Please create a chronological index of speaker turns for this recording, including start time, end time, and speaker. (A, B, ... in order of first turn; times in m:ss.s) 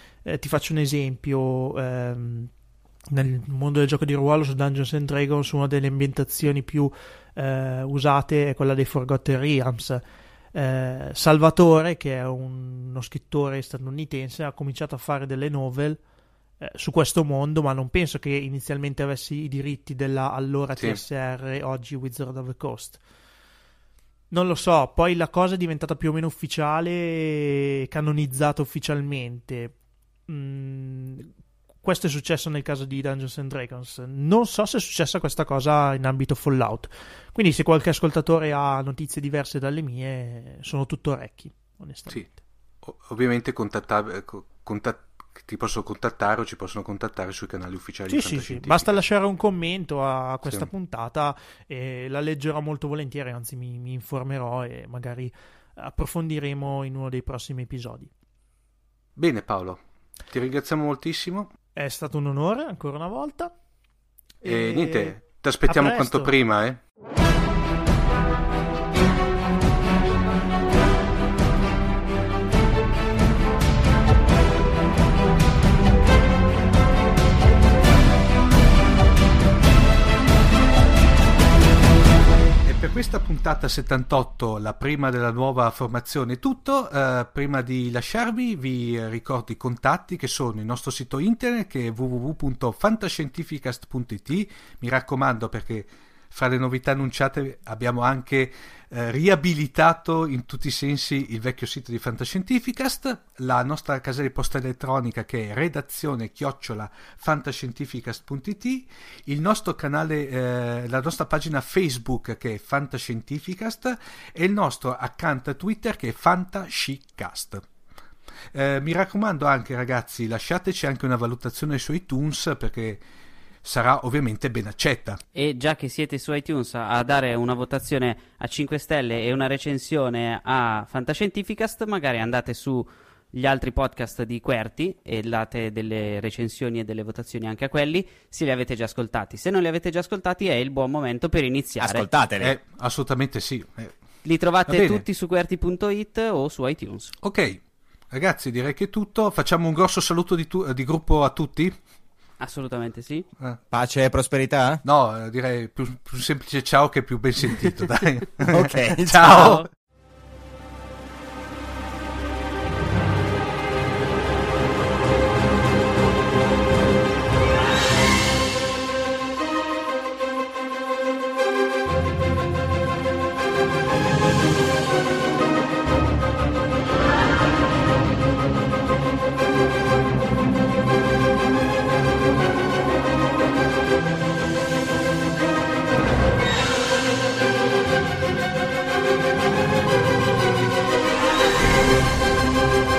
0:00.2-0:02.5 A
0:03.1-0:10.0 A
0:10.5-0:16.0 A
0:16.6-0:23.0 A
0:20.8-0:21.0 B
0:24.3-0:29.7 A
0:30.3-0:31.3 A
0:31.8-0:42.4 A
0:42.8-0:49.0 B
0:48.1-0:58.1 A
0:50.4-0:50.7 B
0:59.2-1:01.5 B
1:01.8-1:03.5 A
1:04.4-1:06.3 A
1:04.4-1:06.8 B
1:22.6-1:57.6 B
1:58.5-2:03.0 B
2:03.6-2:05.2 B
2:05.3-2:22.1 C
2:21.8-2:22.5 D
2:22.4-2:23.9 B
2:24.2-2:27.1 C
2:24.7-2:25.0 B
2:27.2-2:31.8 B
2:32.4-2:33.2 C
2:33.7-2:34.8 D
2:34.8-2:39.6 B
2:38.4-2:39.6 D